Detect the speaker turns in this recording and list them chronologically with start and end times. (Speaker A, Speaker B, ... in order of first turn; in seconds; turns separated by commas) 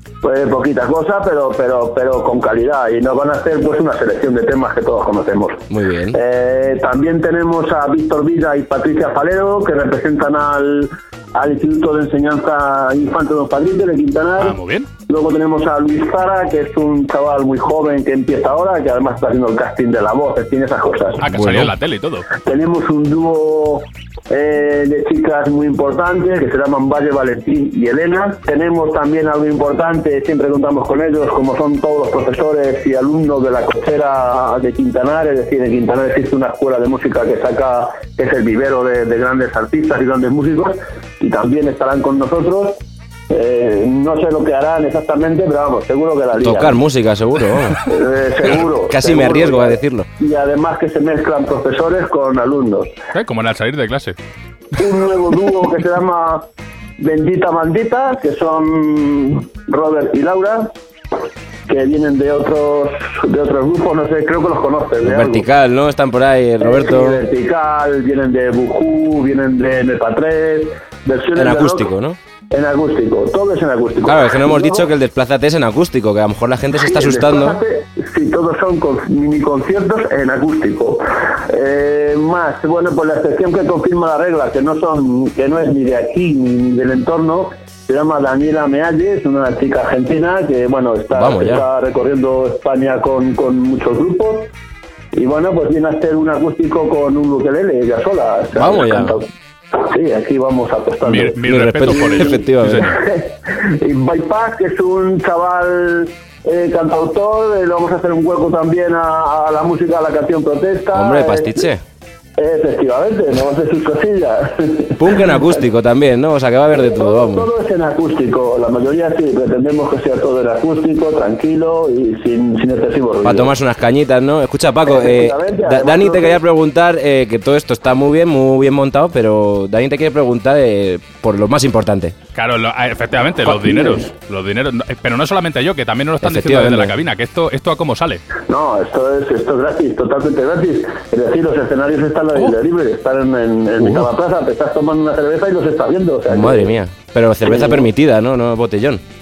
Speaker A: 0.2-14.5, Speaker B: 5.7-6.2, Speaker C: 14.4-14.9, Speaker A: 15.1-21.2, Speaker C: 21.2-22.3, Speaker B: 21.3-21.7, Speaker A: 22.4-42.8, Speaker A: 43.3-46.8, Speaker B: 46.4-47.8, Speaker A: 47.8-53.0, Speaker B: 48.9-50.1, Speaker C: 53.1-54.2, Speaker A: 54.8-56.5, Speaker A: 57.0-60.7, Speaker A: 61.7-65.5, Speaker B: 65.0-67.2, Speaker A: 66.6-71.9, Speaker B: 71.3-72.2, Speaker A: 72.5-74.9, Speaker B: 74.0-77.6, Speaker A: 76.8-94.5, Speaker B: 91.1-91.6, Speaker A: 95.1-101.4, Speaker B: 98.5-99.2, Speaker C: 101.1-103.0, Speaker B: 101.4-103.0, Speaker A: 101.9-111.6, Speaker B: 110.9-111.8, Speaker A: 112.4-115.3, Speaker B: 115.0-117.5, Speaker A: 116.7-123.5, Speaker B: 123.2-132.2, Speaker A: 124.8-126.4, Speaker C: 132.3-138.2, Speaker B: 136.2-136.9, Speaker A: 138.5-146.7, Speaker B: 146.3-149.0, Speaker A: 147.5-147.8